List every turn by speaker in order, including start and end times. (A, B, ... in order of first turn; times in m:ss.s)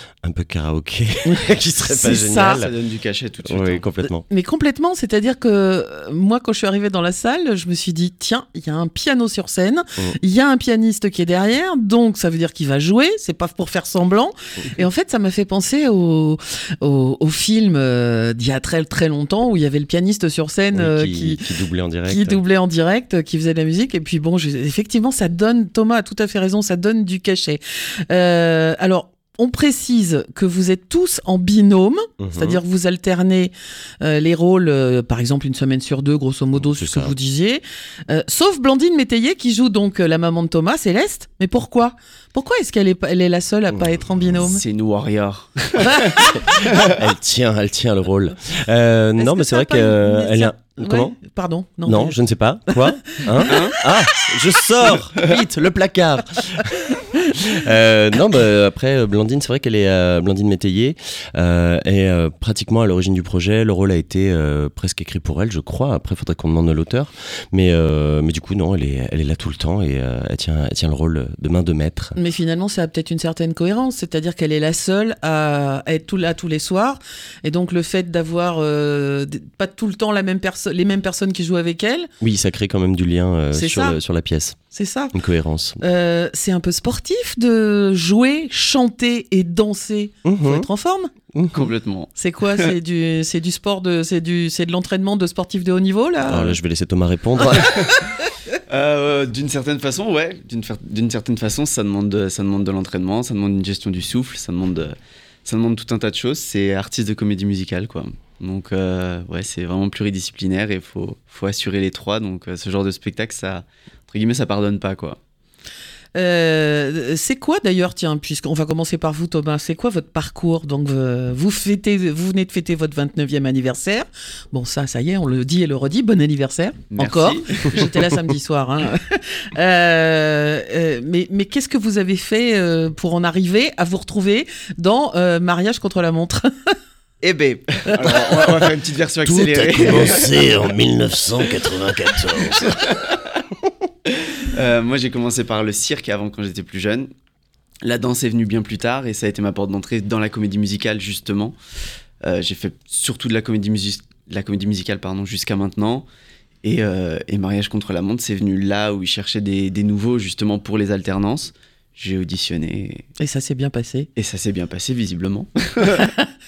0:00.2-0:02.7 A
0:01.2-0:02.6 B
0:02.4-0:03.8 C
0:03.4-0:04.2 A
0:04.3-0:21.5 B
0:20.7-0:22.4 A
0:22.1-0:44.6 B
0:32.2-0:32.6 A
0:36.6-0:37.2 A
0:43.7-0:44.0 A
0:44.4-0:46.9 C
0:46.1-0:46.4 B
0:46.4-0:51.2 A
0:49.2-0:53.6 B
0:51.8-1:12.2 A
0:53.5-0:53.8 C
1:12.2-1:22.1 B
1:22.2-1:24.6 A
1:23.5-1:24.0 B
1:24.7-1:25.1 B
1:25.1-1:25.8 A
1:25.8-1:31.1 B
1:30.2-1:30.7 A
1:31.3-1:31.7 A
1:31.5-1:32.7 C
1:32.2-1:36.6 B
1:36.2-1:37.8 A
1:38.7-1:55.2 C
1:56.2-2:16.5 B
2:06.9-2:08.0 C
2:17.2-2:20.3 C
2:19.2-2:22.9 A
2:22.7-2:23.1 C
2:24.1-2:27.1 C
2:27.8-2:31.6 C
2:32.2-2:36.1 C
2:36.6-2:43.1 C
2:43.2-2:44.1 B
2:44.2-2:46.1 C